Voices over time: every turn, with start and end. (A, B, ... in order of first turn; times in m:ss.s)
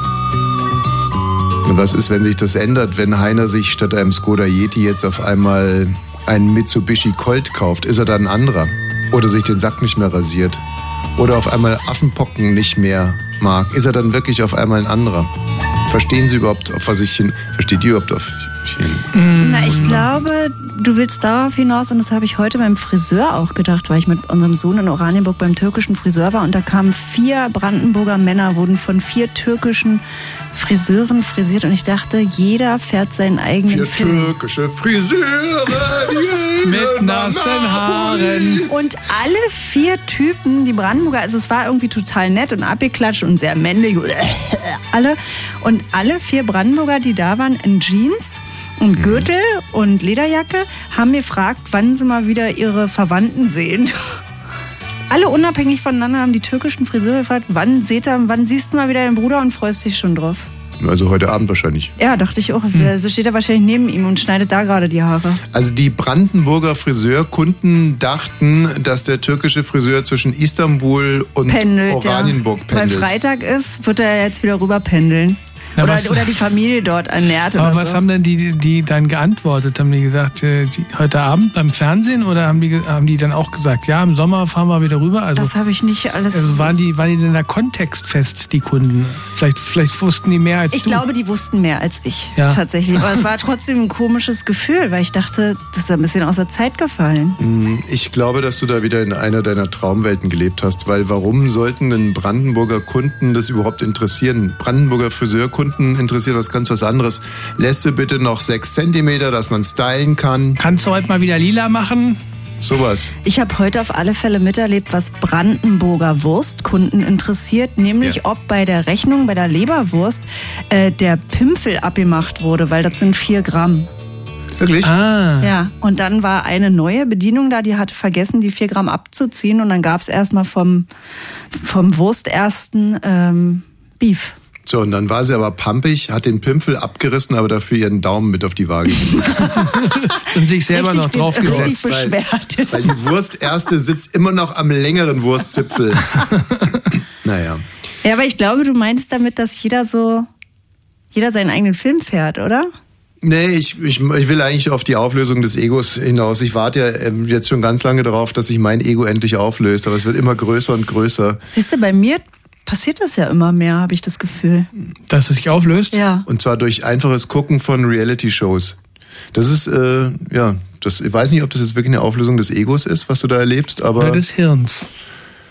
0:01.6-0:10.6 A
0:11.2-0:15.3 A
0:15.9-0:19.1 A
0:19.1-0:20.1 B
0:19.4-0:34.3 C
0:19.8-0:20.2 A
0:33.6-0:38.7 A
0:36.6-0:38.7 B
0:38.7-0:54.2 C
0:49.0-0:49.3 A
0:55.1-1:00.5 C
1:00.8-1:01.9 A
1:02.0-1:05.4 C
1:05.5-1:13.1 A
1:11.5-1:18.0 C
1:15.8-1:16.3 B
1:17.6-1:25.5 B
1:25.4-1:26.7 C
1:26.3-1:31.0 B
1:30.7-1:37.4 C
1:32.4-1:33.2 B
1:37.4-1:50.6 A
1:50.6-1:52.2 B
1:52.6-1:53.1 A
1:53.2-2:03.9 C
2:04.6-2:05.0 A
2:04.8-2:05.5 B
2:05.4-2:10.9 C
2:11.5-2:14.3 C
2:14.6-2:19.5 A
2:19.2-2:19.6 C
2:19.6-2:21.7 B
2:20.7-2:23.1 C
2:21.4-2:22.2 A
2:22.7-2:26.3 A
2:27.2-2:27.6 A
2:28.0-2:30.3 C
2:31.1-2:32.7 C
2:33.2-2:41.4 A
2:41.5-2:44.7 C
2:45.1-2:46.0 B
2:45.9-2:46.2 C
2:46.3-2:48.8 A
2:49.3-2:54.2 A
2:54.0-2:54.9 B